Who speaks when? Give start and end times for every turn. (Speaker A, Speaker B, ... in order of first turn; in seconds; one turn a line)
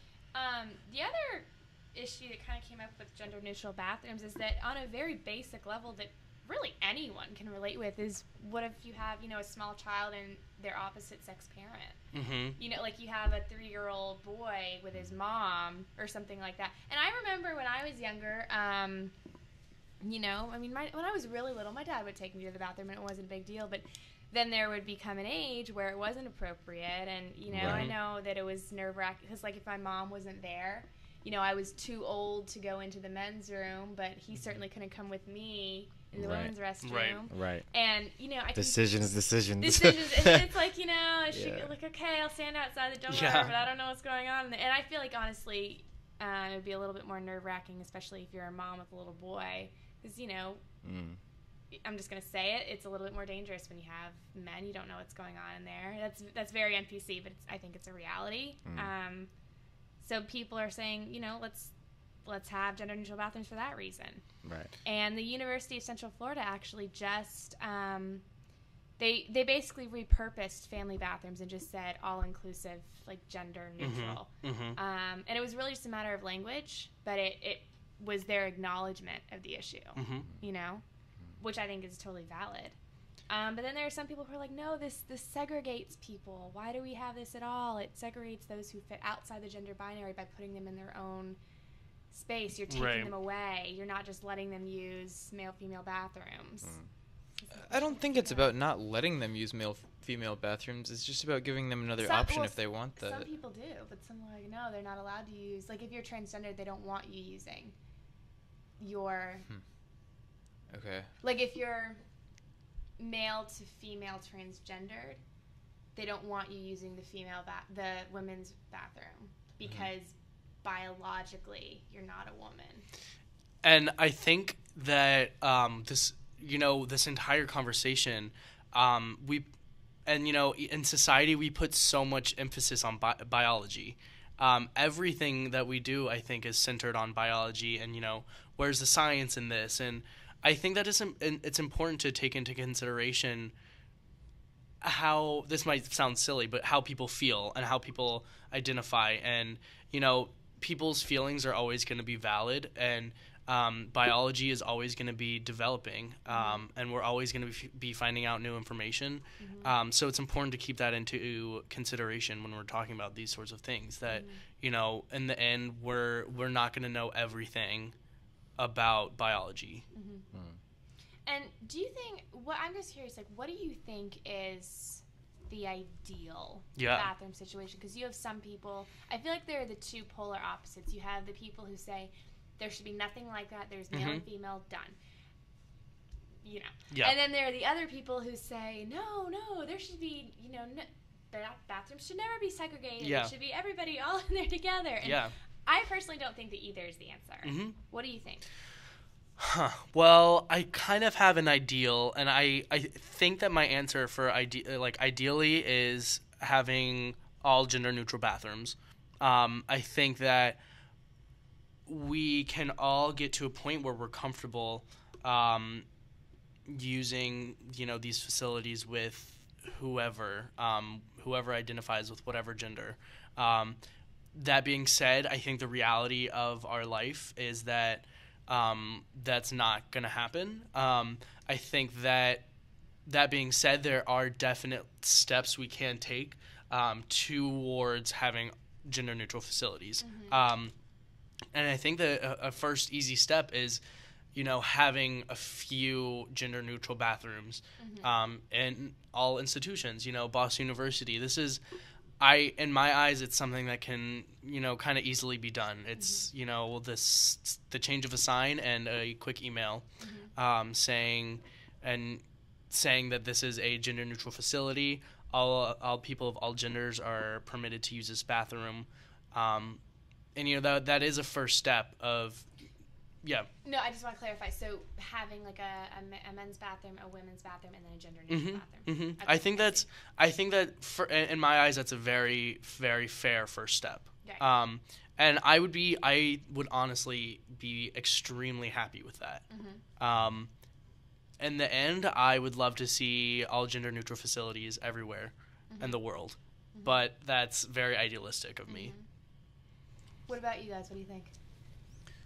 Speaker A: 0.3-12.0
Speaker B: 12.1-12.6
Speaker A: 12.6-19.1
Speaker A: 20.0-38.8
Speaker C: 27.5-27.9
Speaker B: 27.6-27.9
Speaker C: 36.1-36.5
Speaker B: 36.8-37.2
Speaker C: 37.3-37.6
Speaker C: 38.5-40.5
Speaker A: 39.6-50.6
Speaker C: 41.3-41.7
Speaker B: 43.1-43.5
Speaker C: 50.8-51.2
Speaker A: 51.7-59.3
Speaker C: 58.6-58.9
Speaker A: 60.0-61.7
Speaker A: 62.2-64.2
Speaker C: 64.4-64.7
Speaker A: 64.8-68.2
Speaker A: 69.0-80.8
Speaker B: 73.8-74.8
Speaker B: 80.0-80.3
Speaker A: 81.4-82.8
Speaker A: 83.3-91.4
Speaker A: 92.1-96.8
Speaker B: 92.7-93.1
Speaker A: 97.4-98.5
Speaker D: 97.7-103.3
Speaker A: 102.0-107.7
Speaker A: 108.8-109.5
Speaker D: 110.7-111.1
Speaker A: 111.2-112.0
Speaker A: 113.0-115.2
Speaker A: 115.9-122.8
Speaker B: 123.6-129.5
Speaker B: 130.1-143.5
Speaker B: 144.8-167.9
Speaker A: 156.3-156.7
Speaker A: 159.4-159.7
Speaker A: 164.1-164.4
Speaker B: 168.6-169.8
Speaker A: 169.9-170.3
Speaker A: 171.2-184.9
Speaker B: 176.8-177.1
Speaker B: 183.9-184.2
Speaker A: 186.4-198.4
Speaker B: 193.0-193.3
Speaker B: 195.0-195.3
Speaker B: 197.4-197.8
Speaker B: 199.4-210.6
Speaker B: 211.9-215.8
Speaker B: 216.7-223.8
Speaker B: 224.3-232.4
Speaker B: 233.1-240.7
Speaker A: 240.0-240.4
Speaker B: 241.5-243.8
Speaker B: 244.3-251.6
Speaker A: 247.8-248.1
Speaker B: 252.2-269.8
Speaker A: 255.9-256.3
Speaker A: 260.0-260.3
Speaker B: 270.3-272.5
Speaker B: 273.2-273.5
Speaker A: 273.6-279.9
Speaker B: 278.3-290.5
Speaker A: 289.5-289.8
Speaker B: 291.4-298.9
Speaker A: 295.7-296.0
Speaker A: 298.7-299.1
Speaker A: 300.3-301.3